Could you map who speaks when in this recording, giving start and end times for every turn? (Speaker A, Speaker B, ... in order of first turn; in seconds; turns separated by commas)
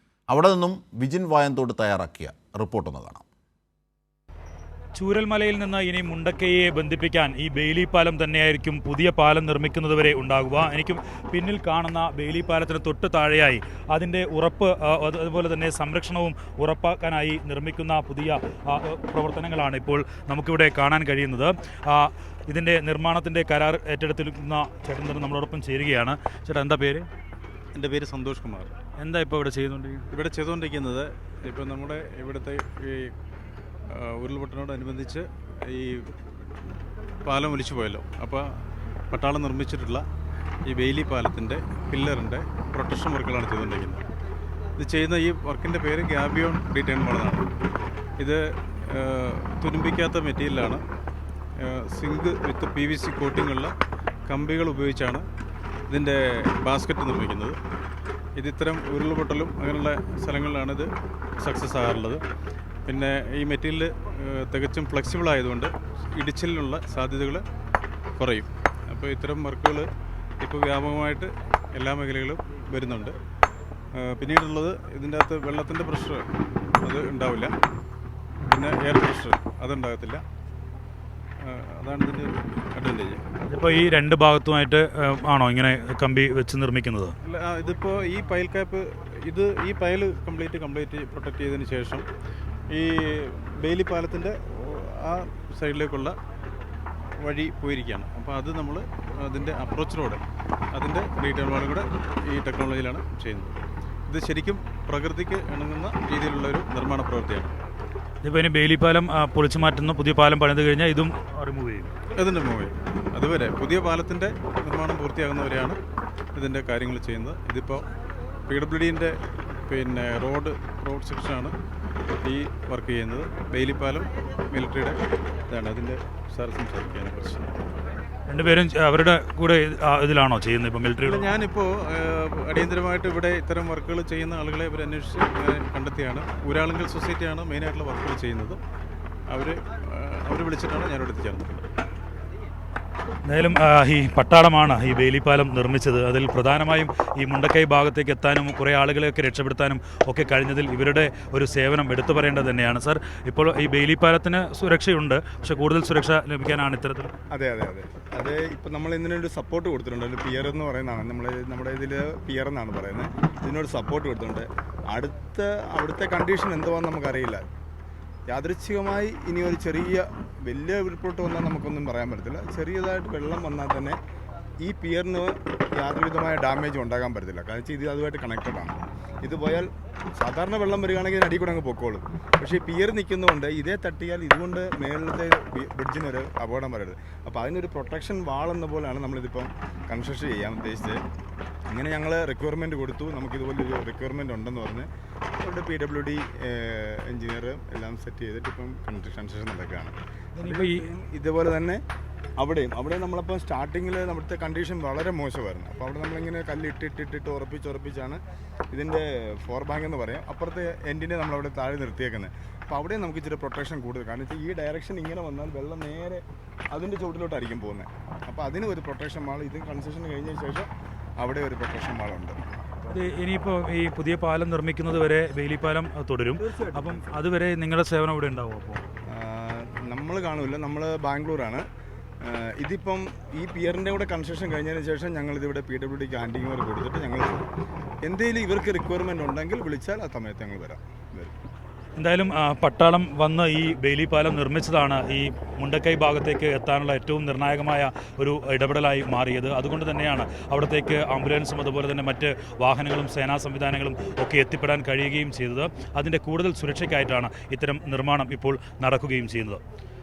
Speaker A: 0.3-3.2, Speaker B: 4.9-27.1, Speaker C: 27.7-28.7, Speaker B: 29.0-30.1, Speaker C: 30.1-33.1, Speaker C: 33.9-36.1, Speaker C: 37.2-40.0, Speaker C: 40.6-44.0, Speaker C: 44.8-47.5, Speaker C: 48.2-50.8, Speaker C: 51.6-53.7, Speaker C: 54.3-55.2, Speaker C: 55.9-57.5, Speaker C: 58.4-62.2, Speaker C: 62.9-67.4, Speaker C: 68.2-69.9, Speaker C: 70.4-73.2, Speaker C: 73.9-76.2, Speaker C: 76.8-77.5, Speaker C: 78.5-80.2, Speaker C: 81.4-83.2, Speaker B: 83.5-87.1, Speaker C: 87.2-92.0, Speaker C: 92.7-96.2, Speaker C: 97.2-100.2, Speaker C: 100.7-107.5, Speaker B: 108.2-111.9, Speaker C: 112.2-115.8, Speaker C: 116.3-117.8, Speaker C: 118.5-121.5, Speaker C: 122.2-127.6, Speaker B: 128.3-131.3, Speaker C: 131.0-138.6, Speaker C: 139.3-141.7, Speaker B: 143.2-157.1, Speaker D: 157.3-167.4, Speaker D: 168.3-174.0, Speaker D: 174.6-191.0, Speaker D: 191.7-194.9, Speaker D: 195.4-201.8, Speaker B: 200.4-200.8, Speaker D: 202.4-222.9, Speaker B: 222.9-228.8, Speaker D: 226.5-227.0, Speaker D: 229.1-231.6, Speaker D: 232.2-237.5, Speaker D: 238.0-241.3, Speaker B: 241.9-259.6